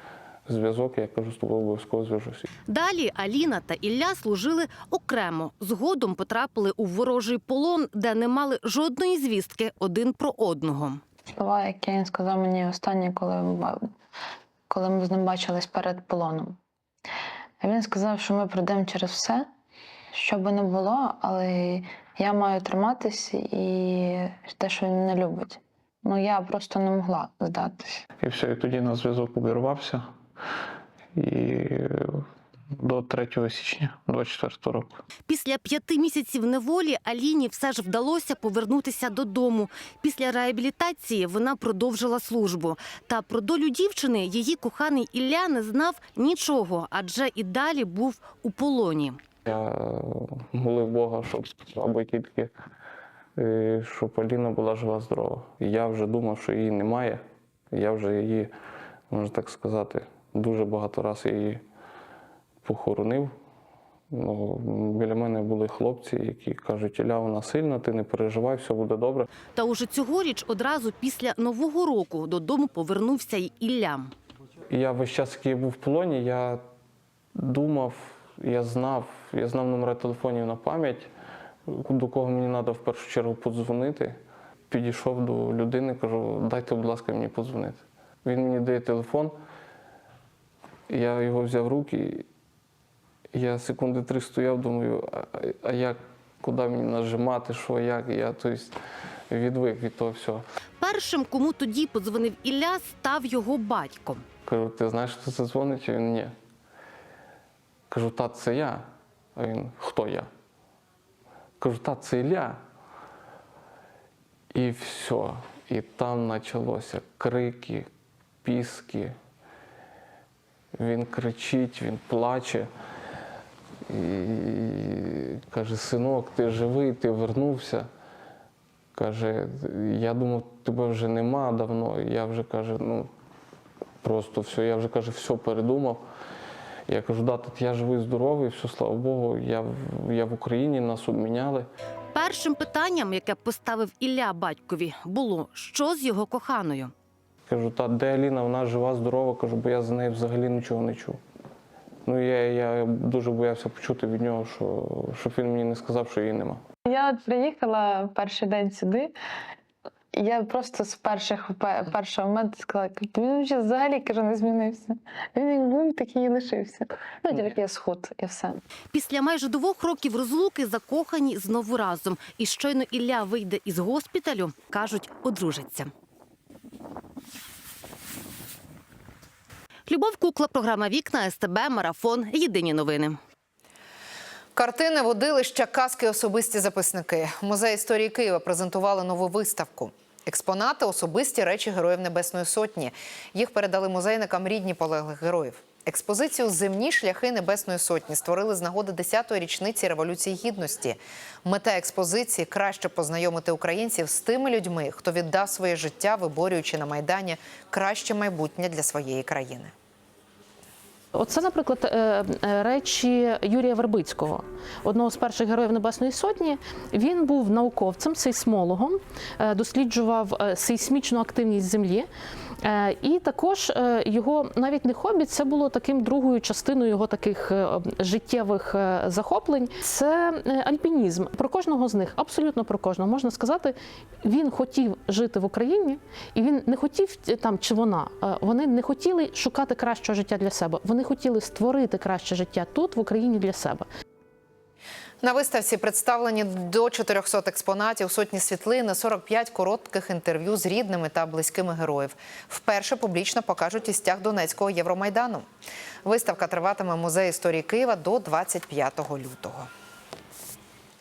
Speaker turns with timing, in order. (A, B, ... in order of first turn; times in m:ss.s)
0:00.5-0:02.5 A
0:02.7-0:11.0 B
0:11.4-0:13.8 C
0:14.7-0:16.6 C
0:17.6-0:19.5 C
0:20.1-0:28.0 C
0:28.2-0:30.0 D
0:31.2-0:31.9 D
0:32.8-0:34.9 D
0:35.3-0:49.2 B
0:49.5-0:52.5 A
0:53.4-0:57.2 A
0:57.7-0:58.5 A
0:59.1-1:01.6 A
1:02.6-1:03.3 A
1:04.1-1:09.3 A
1:09.6-1:14.1 B
1:14.7-1:16.6 A
1:17.4-1:21.1 A
1:21.7-1:24.2 A
1:24.7-1:29.4 A
1:30.9-1:32.2 A
1:33.3-1:38.7 A
1:39.3-1:40.4 A
1:40.8-1:44.2 B
1:44.5-1:46.3 A
1:47.9-1:48.8 A
1:49.4-1:50.3 A
1:51.6-1:52.6 A
1:54.5-1:57.9 A
1:58.4-1:59.1 A
2:00.8-2:02.7 A
2:03.9-2:07.9 A
2:09.0-2:13.1 A
2:14.0-2:16.0 A
2:16.9-2:21.7 A
2:22.1-2:26.9 B
2:27.5-2:31.2 A
2:32.1-2:36.6 A
2:36.9-2:39.1 C
2:40.1-2:48.6 C
2:48.9-2:55.9 B
2:59.9-3:03.2 B
3:04.6-3:29.7 E
3:31.1-3:42.1 F
3:42.6-4:03.9 F
4:05.2-4:15.4 E
4:16.0-4:19.7 E